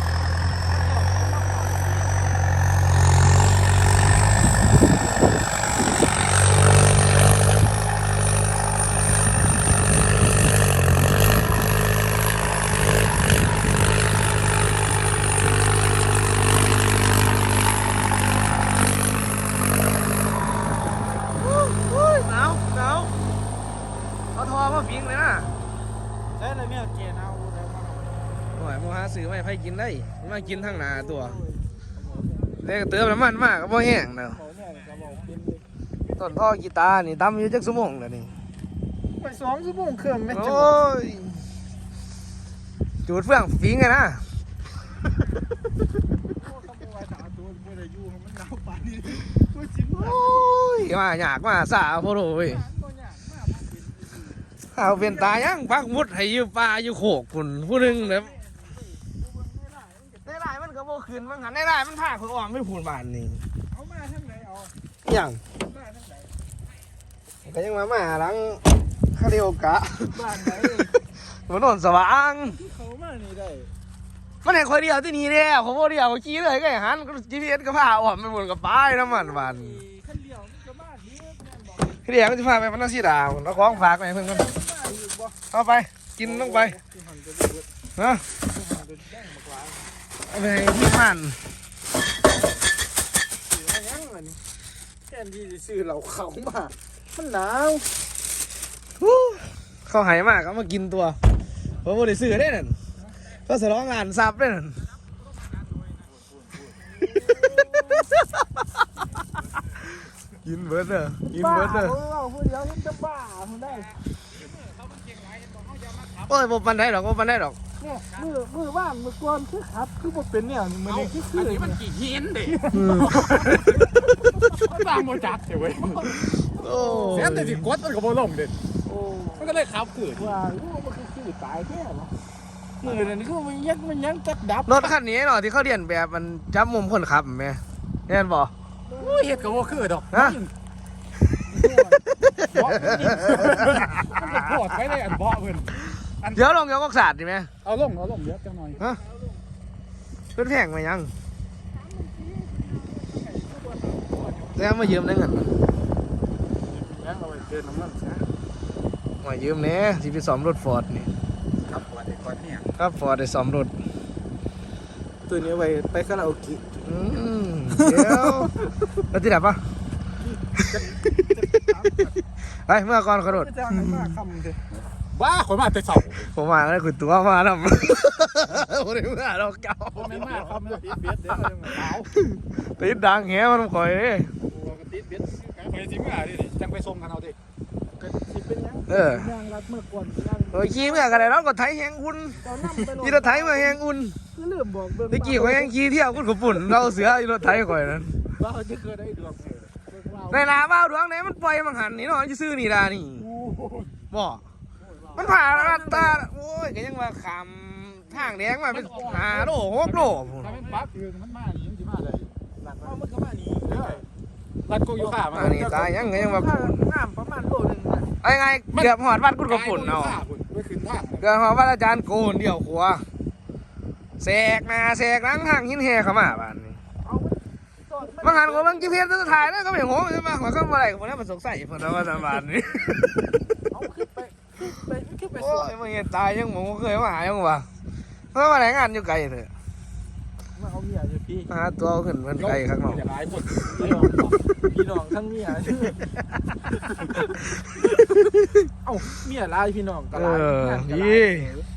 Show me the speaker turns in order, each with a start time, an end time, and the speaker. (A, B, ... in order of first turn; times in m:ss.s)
0:21.4-0:23.2 A
0:24.3-0:25.6 A
0:26.5-0:27.9 B
0:28.6-0:31.4 A
0:32.6-0:34.4 A
0:34.6-0:35.4 B
0:36.2-0:38.3 A
0:39.2-0:40.2 B
0:40.3-0:41.4 A
0:43.1-0:44.2 A
0:46.9-0:49.9 B
0:50.0-0:52.7 A
0:54.7-0:58.4 A
1:00.2-1:03.4 A
1:03.9-1:04.5 B
1:05.0-1:05.4 A
1:07.4-1:12.6 A
1:12.8-1:13.6 B
1:14.4-1:19.8 A
1:19.9-1:20.7 B
1:21.9-1:24.6 A
1:25.5-1:26.8 A
1:26.8-1:27.6 B
1:28.0-1:28.2 A
1:28.8-1:29.3 B
1:30.3-1:31.4 A
1:33.9-1:34.4 B
1:35.1-1:37.9 B
1:39.0-1:41.2 A
1:41.8-1:42.8 A
1:43.4-1:44.8 A
1:47.2-1:48.4 A
1:50.4-1:52.0 A
1:52.0-1:53.6 B
1:54.5-1:56.3 C
1:56.3-1:57.6 A
1:58.3-2:01.6 B
2:00.8-2:03.8 C
2:02.7-2:03.2 A
2:04.4-2:06.2 C
2:06.5-2:07.6 A
2:07.1-2:08.5 C
2:09.0-2:09.4 B
2:09.4-2:10.4 C
2:10.5-2:12.1 B
2:13.0-2:14.6 B
2:14.6-2:18.5 A
2:19.0-2:20.5 C
2:20.1-2:20.4 A
2:21.5-2:26.4 C
2:26.3-2:27.5 A
2:27.6-2:28.8 C
2:30.4-2:31.1 A
2:34.6-2:35.6 A
2:36.7-2:38.2 C
2:39.2-2:41.1 A
2:41.7-2:42.6 C
2:42.8-2:43.7 A
2:45.3-2:46.6 B
2:46.8-2:49.6 A
2:52.7-2:54.0 A
2:53.7-2:54.5 B
2:55.1-2:56.3 C
2:56.3-3:00.2 A
3:00.0-3:02.1 C
3:02.3-3:04.3 A
3:05.4-3:07.4 C
3:08.1-3:08.8 B
3:08.9-3:09.3 A
3:09.4-3:10.4 B
3:10.5-3:14.2 A
3:12.6-3:13.0 B
3:14.4-3:15.1 B
3:15.1-3:18.2 A
3:18.4-3:19.8 B
3:20.3-3:23.3 A
3:23.3-3:23.9 C
3:24.1-3:24.4 A
3:25.2-3:30.6 A
3:28.7-3:32.3 C
3:34.7-3:35.6 C
3:35.4-3:36.9 A
3:36.9-3:38.0 B
3:38.2-3:40.2 A
3:39.5-3:41.3 C
3:41.2-3:43.0 A
3:44.2-3:46.8 A
3:48.2-3:53.2 A
3:53.8-3:55.3 B
3:55.3-3:57.7 A
3:58.3-3:59.5 A
4:00.6-4:01.4 B
4:01.5-4:03.1 A
4:02.5-4:04.0 C
4:04.8-4:05.9 B
4:08.9-4:10.1 B
4:10.1-4:11.5 A